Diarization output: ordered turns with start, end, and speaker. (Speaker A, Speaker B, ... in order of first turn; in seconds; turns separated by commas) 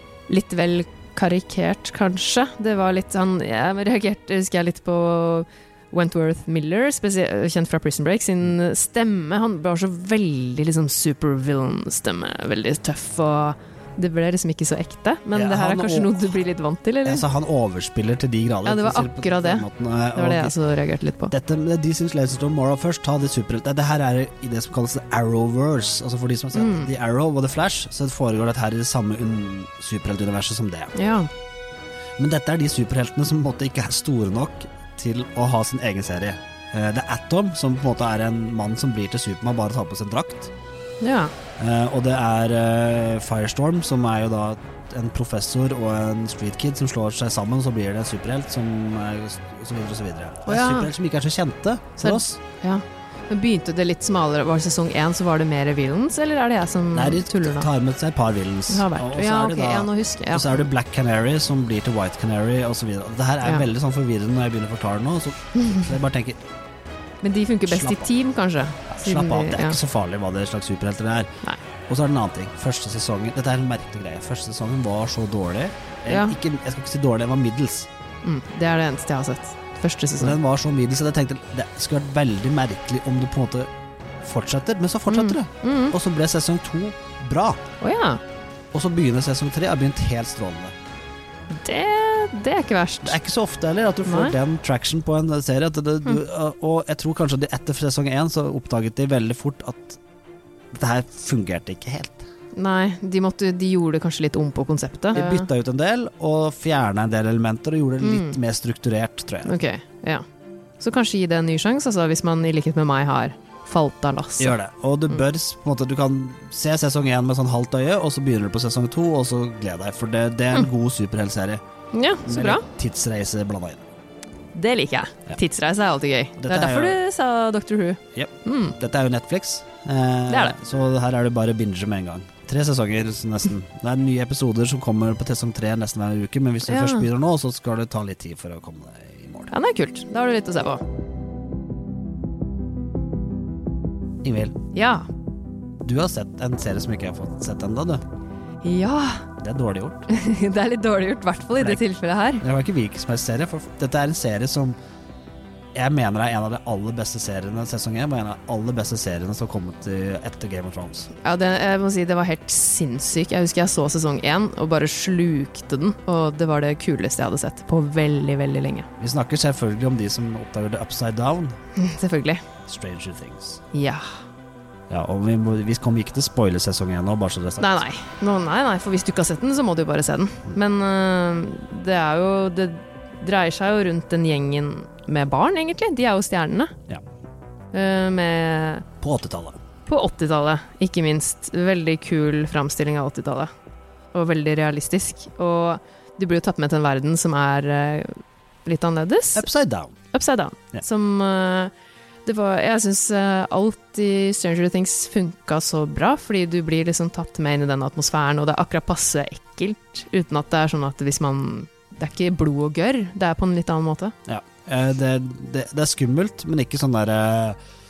Speaker A: 0.3-17.2, Speaker B: 15.3-16.4, Speaker B: 17.0-20.6, Speaker A: 18.6-21.3, Speaker B: 21.3-30.9, Speaker A: 26.5-26.9, Speaker A: 30.9-31.3, Speaker B: 32.2-40.5, Speaker A: 41.0-41.3, Speaker B: 41.6-52.4, Speaker A: 50.5-50.9, Speaker A: 52.0-57.7, Speaker B: 56.9-66.4, Speaker A: 58.7-60.6, Speaker A: 67.2-69.8, Speaker B: 67.7-68.1, Speaker B: 68.9-71.3, Speaker B: 71.9-77.9, Speaker A: 76.1-76.3, Speaker A: 78.2-80.4, Speaker B: 80.2-83.7, Speaker B: 84.2-87.6, Speaker A: 85.1-85.9, Speaker A: 87.8-88.2, Speaker B: 88.7-90.7, Speaker A: 91.5-93.2, Speaker B: 93.0-100.0, Speaker A: 94.0-94.3, Speaker B: 100.7-102.2, Speaker A: 102.5-105.5, Speaker B: 105.1-109.6, Speaker A: 108.0-108.4, Speaker A: 109.4-110.2, Speaker A: 110.8-114.5, Speaker B: 114.4-121.6, Speaker A: 121.9-122.6, Speaker B: 122.2-123.8, Speaker A: 124.5-128.8, Speaker B: 126.4-127.0, Speaker B: 128.1-139.5, Speaker A: 130.3-130.6, Speaker A: 136.7-137.1, Speaker A: 139.5-140.8, Speaker B: 144.2-144.6, Speaker A: 144.7-145.1, Speaker B: 145.8-148.0, Speaker A: 148.6-149.2, Speaker B: 149.4-150.1, Speaker A: 150.1-152.4, Speaker B: 152.4-154.8, Speaker B: 155.7-161.1, Speaker A: 161.2-168.9, Speaker B: 169.0-171.6, Speaker A: 171.8-172.4, Speaker B: 172.7-173.6, Speaker A: 173.7-174.1, Speaker B: 174.9-177.8, Speaker A: 177.6-186.7, Speaker A: 187.7-188.8, Speaker B: 189.0-189.6, Speaker A: 189.9-193.5, Speaker A: 194.1-199.4, Speaker B: 199.3-200.0, Speaker A: 200.1-201.7, Speaker A: 202.2-214.1, Speaker B: 214.3-217.6